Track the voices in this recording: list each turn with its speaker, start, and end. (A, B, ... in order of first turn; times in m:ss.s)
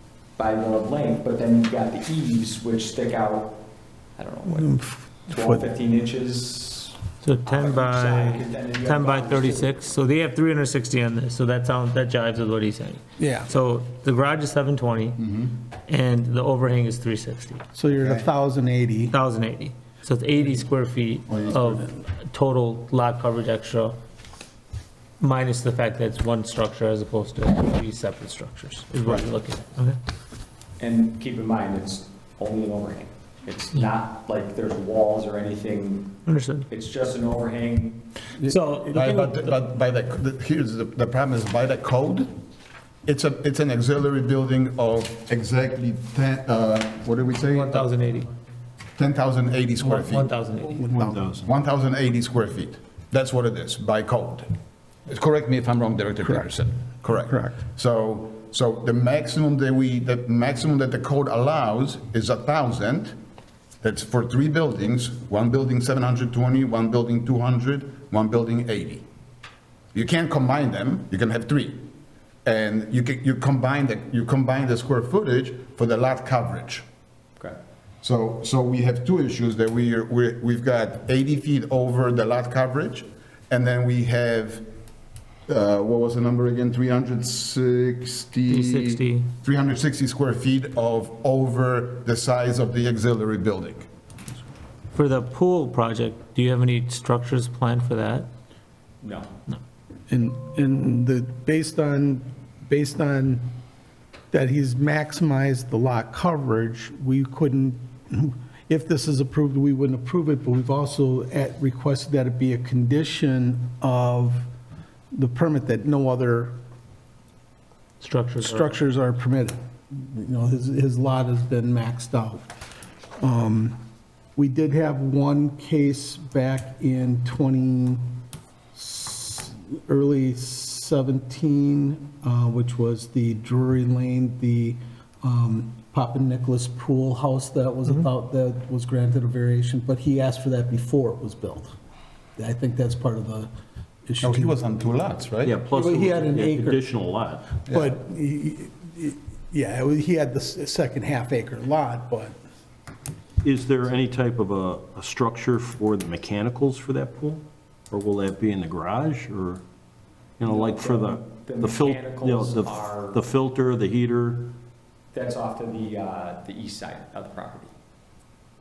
0:00.4-0:03.6 A
0:04.2-0:04.8 A
0:04.5-0:05.6 B
0:05.3-0:09.7 A
0:07.2-0:15.2 C
0:13.2-0:13.5 B
0:15.2-0:15.6 D
0:15.9-0:17.6 C
0:17.8-0:19.2 B
0:18.0-0:18.2 D
0:19.1-0:24.0 C
0:21.3-0:21.8 D
0:25.2-0:30.0 C
0:30.8-0:38.0 A
0:36.3-0:36.7 C
0:38.4-0:39.6 C
0:38.9-0:42.3 D
0:43.1-0:47.9 D
0:47.4-0:48.3 C
0:49.0-0:50.3 D
0:49.8-0:50.9 C
0:50.8-0:51.2 B
0:51.0-0:51.5 E
0:51.4-0:54.5 D
0:55.1-1:03.2 D
0:57.1-0:57.6 B
1:03.8-1:09.0 D
1:09.9-1:11.9 D
1:12.4-1:16.8 D
1:18.0-1:24.6 D
1:25.5-1:33.9 D
1:28.5-1:29.3 C
1:34.9-1:38.3 C
1:39.0-1:39.3 A
1:40.1-1:43.5 B
1:44.3-1:54.5 B
1:55.1-1:56.6 B
1:58.0-1:58.8 C
1:58.4-2:02.5 B
2:03.2-2:03.8 B
2:04.4-2:08.0 B
2:08.7-2:21.7 B
2:22.4-2:23.5 B
2:24.1-2:24.5 B
2:24.2-2:25.6 D
2:25.4-2:27.6 E
2:25.6-2:26.9 B
2:27.7-2:32.3 B
2:27.7-2:27.9 D
2:33.4-2:39.6 E
2:40.4-2:44.6 E
2:40.4-2:43.2 A
2:45.1-2:47.7 A